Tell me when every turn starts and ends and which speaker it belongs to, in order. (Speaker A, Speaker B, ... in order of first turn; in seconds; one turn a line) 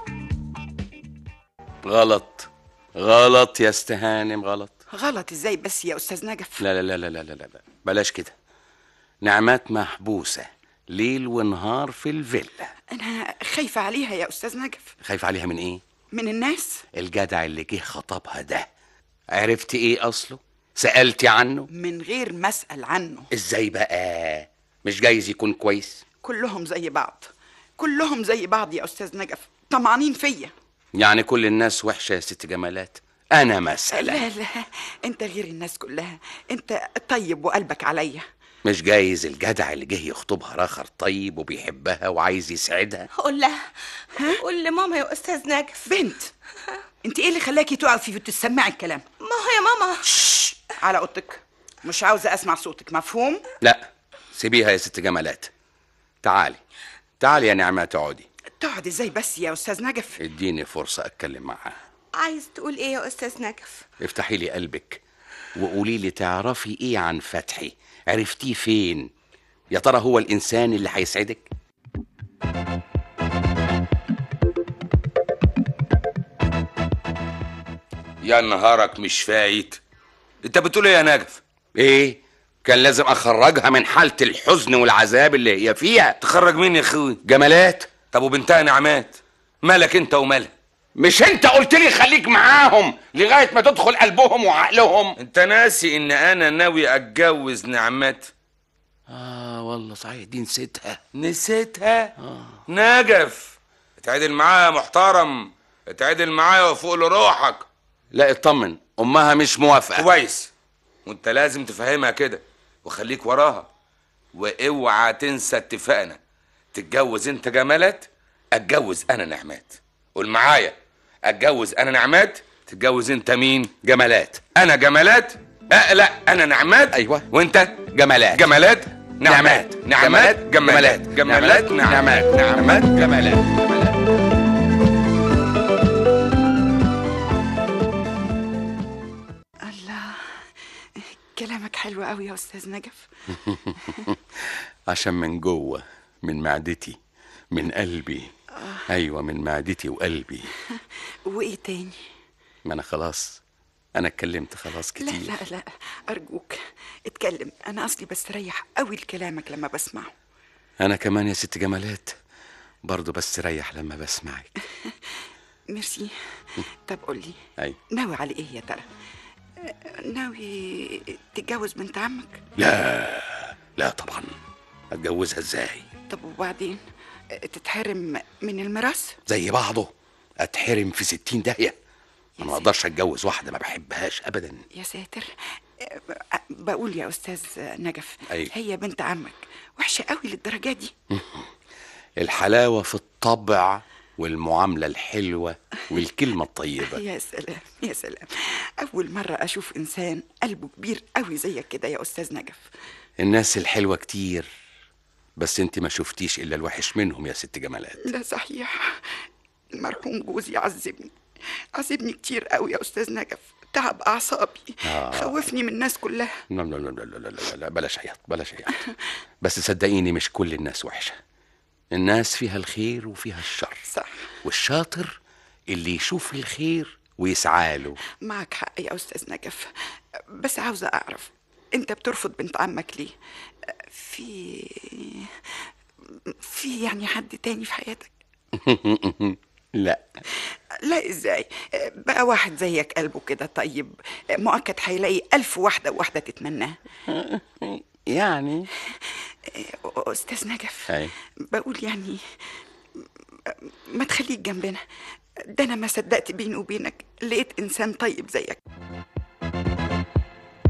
Speaker A: 1.8-4.8
Speaker B: 4.9-6.6
Speaker A: 6.6-8.3
Speaker A: 9.2-12.7
Speaker B: 12.9-14.9
Speaker A: 15.0-15.8
Speaker B: 16.1-16.8
Speaker A: 16.9-18.7
Speaker A: 19.3-21.7
Speaker B: 21.7-23.3
Speaker A: 23.3-26.0
Speaker B: 26.2-30.5
Speaker A: 30.9-34.3
Speaker B: 33.9-38.2
Speaker A: 38.6-43.1
Speaker C: 43.2-43.6
Speaker C: 44.4-45.8
Speaker B: 45.9-46.3
Speaker B: 47.0-49.0
Speaker C: 49.2-50.0
Speaker B: 50.3-53.4
Speaker A: 53.6-55.5
Speaker A: 56.2-56.6
Speaker A: 57.2-58.3
Speaker B: 58.6-60.2
Speaker A: 60.2-61.8
Speaker C: 62.2-63.8
Speaker A: 64.0-65.0
Speaker A: 65.6-69.1
Speaker A: 69.7-71.5
Speaker D: 78.2-79.8
Speaker D: 80.4-81.4
Speaker A: 81.8-86.2
Speaker D: 86.2-87.2
Speaker A: 87.2-87.9
Speaker D: 88.1-90.5
Speaker A: 91.0-95.2
Speaker D: 95.2-98.3
Speaker A: 99.1-101.0
Speaker D: 101.2-102.1
Speaker A: 102.2-102.6
Speaker D: 102.7-107.7
Speaker A: 108.1-110.1
Speaker D: 110.0-110.5
Speaker D: 111.1-113.7
Speaker D: 114.3-116.2
Speaker D: 116.7-123.7
Speaker A: 123.8-124.4
Speaker D: 124.5-133.1
Speaker A: 126.9-127.3
Speaker A: 127.9-128.5
Speaker A: 129.2-134.0
Speaker B: 139.6-140.2
Speaker B: 141.0-143.1
Speaker A: 143.3-147.0
Speaker A: 147.5-148.3
Speaker B: 148.6-148.8
Speaker A: 148.9-150.5
Speaker B: 150.7-152.0
Speaker A: 152.7-153.4
Speaker A: 154.0-155.4
Speaker B: 155.0-160.1
Speaker A: 160.8-162.2
Speaker A: 162.8-164.5
Speaker B: 165.7-166.1
Speaker B: 166.8-167.4
Speaker B: 167.9-168.9
Speaker B: 169.6-172.4
Speaker A: 172.6-174.3
Speaker A: 174.9-175.9
Speaker B: 176.1-176.8
Speaker B: 177.3-179.2
Speaker A: 179.3-181.8
Speaker B: 182.4-182.7
Speaker A: 182.4-184.6
Speaker B: 184.7-190.9
Speaker A: 191.1-191.5
Speaker A: 192.2-197.0
Speaker B: 196.8-202.7
Speaker A: 203.2-204.5
Speaker A: 205.4-208.0
Speaker B: 208.0-209.0
Speaker B: 209.7-211.1
Speaker B: 211.8-216.3
Speaker A: 214.8-215.5
Speaker A: 216.5-218.8
Speaker A: 219.4-221.2
Speaker A: 221.9-223.9
Speaker B: 223.9-224.2
Speaker A: 224.4-225.2
Speaker A: 225.7-228.0
Speaker B: 228.2-229.7
Speaker B: 230.3-233.2
Speaker B: 233.9-235.4
Speaker B: 236.3-238.2
Speaker A: 238.6-240.0
Speaker B: 240.8-246.8
Speaker A: 247.1-248.7
Speaker B: 249.5-250.9
Speaker B: 251.5-252.2
Speaker B: 253.5-254.8
Speaker B: 255.5-258.6